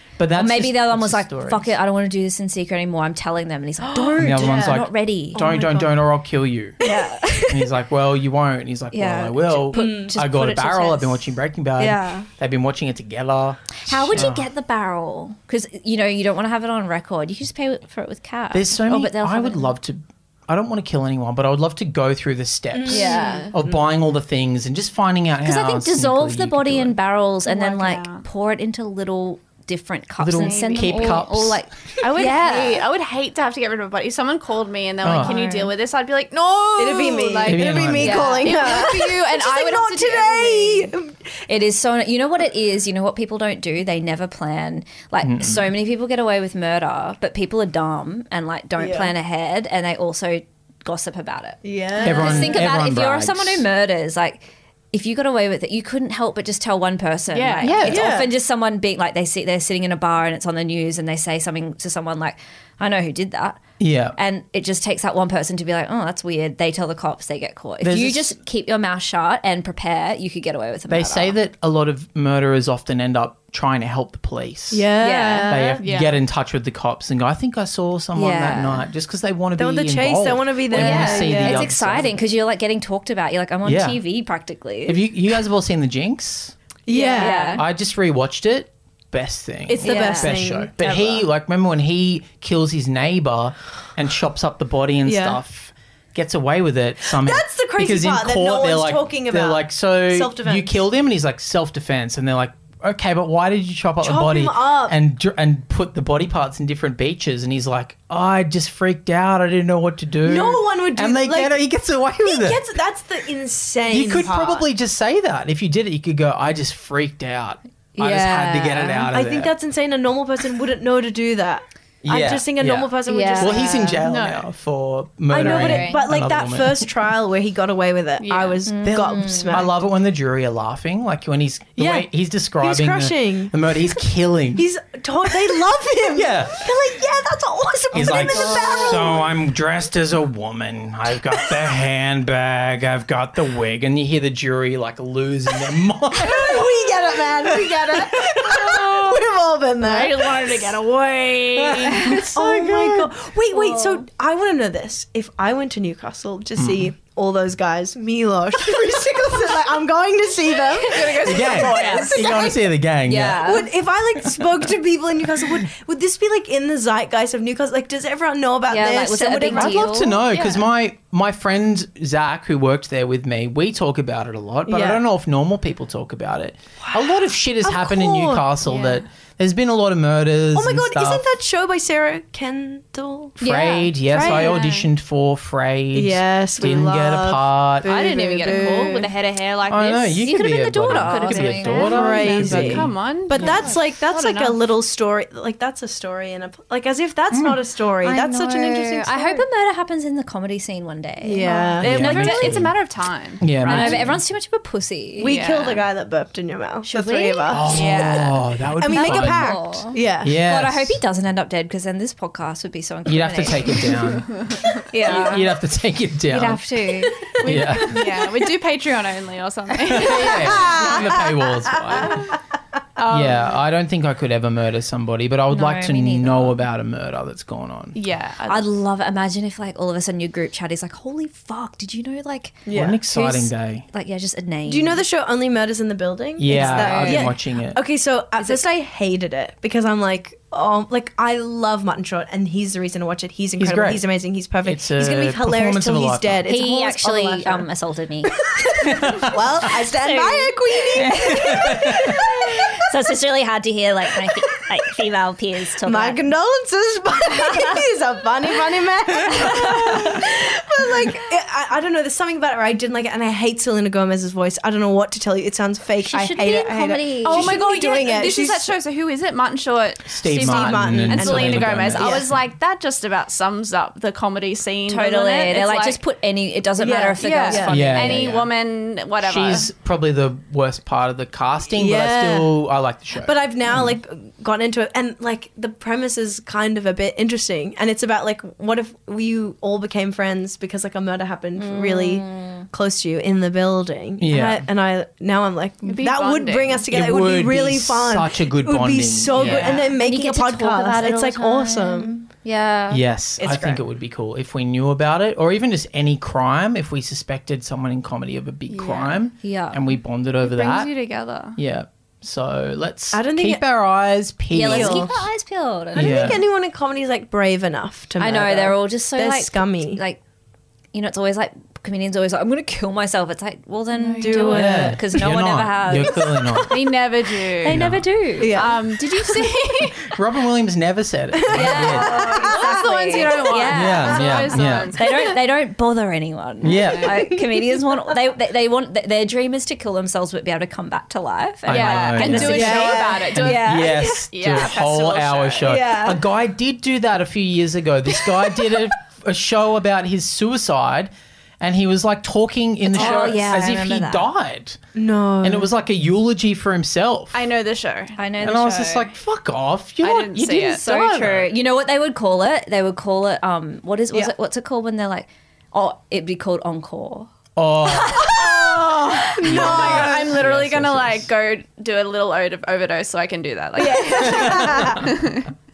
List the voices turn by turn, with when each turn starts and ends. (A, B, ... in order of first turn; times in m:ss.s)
0:00.2-0:01.8 A
0:00.4-0:05.5 B
0:03.8-0:06.0 C
0:04.2-0:06.8 A
0:06.8-0:07.7 B
0:07.5-0:14.5 A
0:08.9-0:11.2 B
0:09.7-0:10.2 C
0:11.8-0:12.3 B
0:13.8-0:19.7 B
0:18.5-0:27.0 A
0:22.7-0:23.8 C
0:22.9-0:23.5 B
0:25.4-0:32.8 B
0:27.4-0:28.2 D
0:30.2-0:31.6 A
0:30.4-0:31.2 D
0:32.0-0:40.9 D
0:35.0-0:35.4 A
0:35.2-0:35.7 B
0:36.8-0:41.2 C
0:37.4-0:38.3 A
0:38.0-0:38.7 B
0:41.5-1:03.6 B
0:45.2-0:45.7 A
0:48.8-0:49.1 C
0:51.6-0:52.6 C
0:52.0-0:53.7 A
0:57.3-0:58.0 D
0:57.6-0:58.2 A
0:57.8-0:58.3 C
1:03.8-1:04.2 A
1:04.2-1:11.4 B
1:07.8-1:08.4 A
1:10.9-1:14.9 A
1:14.7-1:15.8 C
1:15.0-1:15.7 B
1:15.5-1:22.1 A
1:15.8-1:16.2 D
1:18.2-1:18.8 B
1:19.6-1:21.7 C
1:20.7-1:25.0 B
1:23.6-1:24.0 A
1:24.9-1:26.6 A
1:26.9-1:27.6 C
1:26.9-1:27.6 B
1:27.0-1:27.4 D
1:27.5-1:52.6 A
1:29.7-1:31.2 C
1:29.8-1:30.4 B
1:35.0-1:35.4 C
1:37.1-1:40.8 C
1:44.0-1:45.0 C
1:50.2-1:51.6 C
1:52.2-1:54.7 C
1:53.9-1:59.5 A
1:58.0-1:59.1 B
1:59.1-2:04.0 C
2:02.0-2:06.9 A
2:03.1-2:03.7 B
2:04.0-2:04.4 D
2:05.3-2:09.8 C
2:05.4-2:06.0 B
2:08.2-2:08.6 D
2:08.7-2:09.7 B
2:08.9-2:14.6 A
2:11.8-2:13.6 C
2:14.6-2:19.3 C
2:16.1-2:16.7 A
2:17.9-2:28.8 A
2:18.3-2:19.2 B
2:26.2-2:30.7 C
2:28.7-2:29.2 D
2:29.8-2:32.3 D
2:31.6-2:33.1 A
2:32.1-2:42.6 C
2:33.5-2:34.0 B
2:36.6-2:36.9 A
2:40.8-2:42.3 D
2:40.8-2:42.5 B
2:41.2-2:43.6 A
2:43.1-2:43.7 B
2:43.4-2:50.2 C
2:48.7-2:50.2 B
2:49.5-3:01.2 A
2:50.3-2:50.7 D
2:54.7-2:55.0 C
2:56.9-2:58.5 C
2:58.6-2:59.0 D
3:00.5-3:03.4 C
3:03.4-3:08.0 A
3:03.4-3:03.9 B
3:04.1-3:04.6 C
3:04.2-3:04.9 D
3:05.9-3:09.1 C
3:07.8-3:10.3 D
3:08.4-3:09.0 B
3:09.7-3:13.6 A
3:10.2-3:12.6 B
3:10.8-3:14.6 D
3:11.7-3:19.5 C
3:13.4-3:13.7 B
3:17.3-3:17.6 A
3:18.0-3:22.7 B
3:21.2-3:22.0 C
3:21.8-3:24.2 D
3:21.8-3:22.7 A
3:23.4-3:24.2 A
3:23.7-3:25.4 B
3:25.2-3:28.2 C
3:25.2-3:25.9 D
3:26.9-3:28.2 B
3:27.5-3:31.0 A
3:27.7-3:28.4 D
3:28.8-3:30.3 C
3:28.9-3:34.3 B
3:33.1-3:34.4 A
3:34.9-3:35.5 B
3:35.0-3:38.2 A
3:36.3-3:37.2 B
3:37.0-3:38.2 C
3:37.4-3:41.2 D
3:39.8-3:42.3 A
3:40.2-3:42.2 C
3:43.0-3:43.6 D
3:43.1-3:48.0 A
3:45.5-3:46.6 B
3:47.9-3:48.7 D
3:48.5-3:55.0 B
3:52.7-3:53.0 C
3:52.7-3:53.9 A
3:54.7-4:07.7 C
3:56.4-3:57.8 A
3:56.5-3:57.3 B
4:03.6-4:04.0 A
4:04.6-4:06.4 A
4:06.5-4:09.1 B
4:08.4-4:12.9 C
4:08.8-4:09.6 A
4:09.7-4:16.2 B
4:11.0-4:12.3 A
4:15.8-4:28.7 C
4:17.3-4:17.8 B
4:19.3-4:20.2 B
4:26.0-4:27.6 B
4:27.2-4:36.0 D
4:30.1-4:32.4 A
4:30.3-4:32.3 C
4:34.9-4:38.3 B
4:36.8-4:37.9 C
4:37.2-4:39.7 D
4:37.7-4:38.5 A
4:39.2-4:44.0 A
4:41.7-4:42.6 C
4:43.2-5:02.1 C
4:51.6-4:52.7 B
4:54.2-4:54.6 A
4:55.8-4:56.9 D
4:56.9-4:59.8 A
4:59.4-5:03.0 B
4:59.4-4:59.8 D
5:02.9-5:10.9 A
5:03.4-5:03.8 C
5:08.7-5:09.2 D
5:09.4-5:09.8 B
5:10.4-5:11.6 D
5:11.6-5:15.1 A
5:13.1-5:13.6 C
5:14.5-5:16.4 B
5:14.6-5:15.2 C
5:15.9-5:20.0 C
5:16.0-5:16.4 A
5:18.2-5:20.2 B
5:20.9-5:26.7 B
5:24.0-5:24.6 D
5:24.2-5:25.2 C
5:24.5-5:26.8 A
5:26.1-5:26.6 C
5:26.7-5:27.8 D
5:27.6-5:28.7 B
5:27.6-5:28.1 A
5:27.7-5:29.3 C
5:28.4-5:30.2 D
5:30.0-5:32.3 A
5:31.3-5:34.3 C
5:31.5-5:44.3 B
5:31.9-5:35.1 D
5:33.7-5:35.0 A
5:36.6-5:37.3 A
5:37.0-5:37.8 C
5:41.7-5:54.8 A
5:41.7-5:45.8 D
5:42.4-5:43.3 C
5:45.6-5:46.2 B
5:52.8-5:54.3 B
5:55.0-5:55.7 C
5:55.4-5:57.4 A
5:57.3-5:58.2 D
5:58.2-5:59.1 B
5:58.4-6:01.5 A
6:00.0-6:00.8 D
6:00.4-6:07.3 B
6:07.6-6:08.3 A
6:07.8-6:09.4 B
6:08.2-6:10.3 C
6:08.6-6:15.5 D
6:09.4-6:11.3 A
6:13.8-6:15.0 B
6:13.9-6:15.1 C
6:14.3-6:15.0 A